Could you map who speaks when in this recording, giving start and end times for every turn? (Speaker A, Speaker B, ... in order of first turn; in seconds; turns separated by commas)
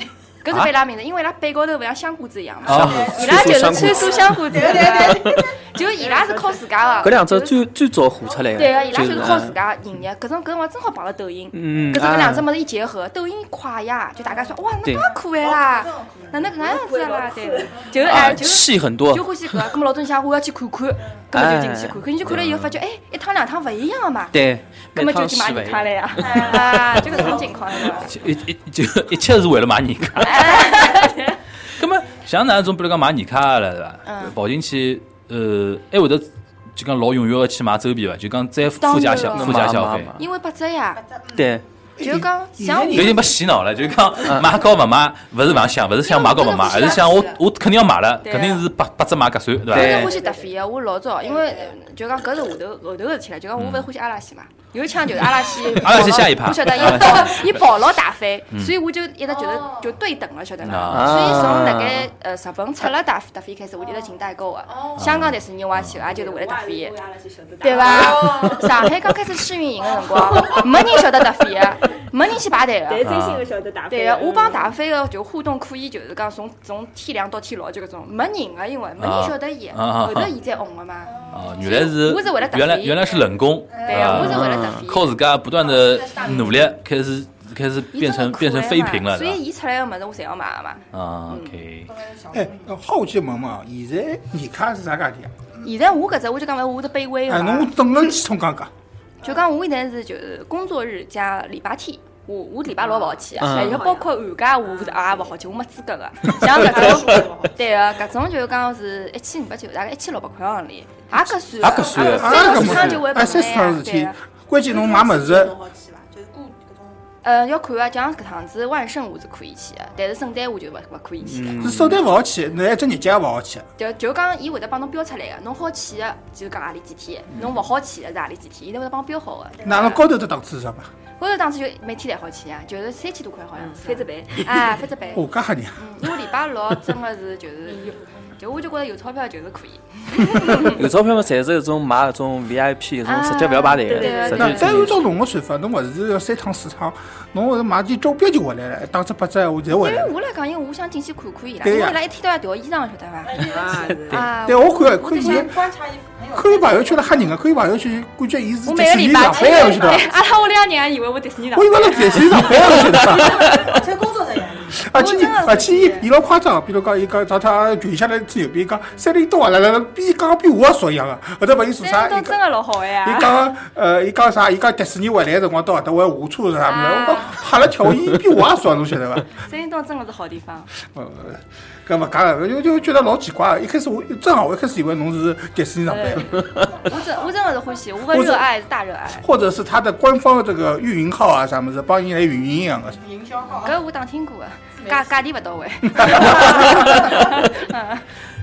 Speaker A: 0.4-7.7, Speaker B: 2.6-7.2, Speaker C: 2.7-3.2, Speaker D: 2.7-5.5, Speaker D: 7.0-9.6, Speaker B: 8.2-9.4, Speaker A: 8.5-24.4, Speaker D: 11.5-12.5, Speaker B: 14.2-18.3, Speaker E: 17.0-17.4, Speaker D: 18.0-19.8, Speaker D: 21.3-22.1, Speaker C: 22.2-22.8, Speaker D: 24.3-26.5, Speaker A: 24.9-28.1, Speaker B: 26.2-28.2, Speaker C: 27.9-31.0, Speaker A: 30.2-31.4, Speaker C: 31.7-40.1, Speaker A: 34.0-34.4, Speaker A: 38.8-41.0, Speaker D: 39.3-40.2, Speaker B: 41.0-41.6, Speaker D: 41.4-41.6, Speaker F: 42.0-43.2, Speaker A: 42.0-43.2, Speaker C: 42.9-50.1, Speaker A: 46.0-47.4, Speaker A: 48.2-48.7, Speaker D: 49.7-50.2, Speaker A: 49.7-67.0, Speaker B: 50.0-50.5, Speaker B: 51.2-51.7, Speaker C: 53.6-53.9, Speaker C: 55.6-57.6, Speaker B: 59.5-59.9, Speaker C: 60.6-61.7, Speaker D: 60.9-62.1, Speaker B: 64.7-65.0, Speaker C: 65.0-66.0, Speaker E: 66.1-68.5, Speaker A: 67.6-73.2, Speaker B: 67.6-68.9, Speaker B: 70.0-70.8, Speaker E: 73.0-74.6, Speaker C: 73.0-73.5, Speaker A: 73.9-83.2, Speaker C: 79.0-80.3, Speaker B: 81.0-81.8, Speaker C: 81.3-89.4, Speaker B: 83.7-84.5, Speaker A: 83.8-85.1, Speaker D: 84.1-84.8, Speaker B: 85.6-86.8, Speaker A: 87.9-91.6, Speaker C: 90.9-91.9, Speaker B: 91.9-92.8, Speaker F: 92.3-95.3, Speaker A: 95.6-97.7, Speaker F: 97.3-98.7, Speaker A: 99.2-114.2, Speaker B: 102.8-104.1, Speaker D: 103.4-103.9, Speaker B: 104.7-105.2, Speaker B: 106.3-107.7, Speaker B: 111.6-113.0, Speaker D: 111.7-112.7, Speaker F: 112.0-115.6, Speaker B: 114.7-117.0, Speaker A: 117.2-121.9, Speaker D: 121.2-122.0, Speaker F: 121.6-123.7, Speaker A: 123.8-130.0, Speaker B: 129.6-130.0, Speaker F: 129.6-130.9, Speaker A: 131.2-140.9, Speaker D: 134.3-134.7, Speaker F: 135.1-135.8, Speaker D: 140.5-145.0, Speaker A: 143.0-145.0, Speaker B: 144.1-144.4, Speaker F: 144.3-150.1, Speaker A: 149.7-155.5, Speaker F: 151.6-152.0, Speaker B: 153.2-154.3, Speaker D: 153.7-154.3, Speaker F: 154.4-155.6, Speaker B: 154.8-157.4, Speaker F: 156.3-160.1, Speaker A: 158.7-163.0, Speaker B: 159.3-160.3, Speaker F: 161.5-163.7, Speaker B: 162.5-164.9, Speaker F: 164.8-172.4, Speaker A: 164.9-166.1, Speaker A: 171.8-173.5, Speaker F: 173.0-179.3, Speaker A: 176.6-177.4, Speaker A: 179.4-180.7, Speaker F: 180.8-186.4, Speaker A: 185.9-189.3, Speaker B: 186.8-187.3, Speaker F: 188.1-188.4, Speaker F: 189.2-193.0, Speaker B: 193.0-193.8, Speaker A: 193.6-198.0, Speaker B: 194.8-195.2, Speaker B: 196.1-197.3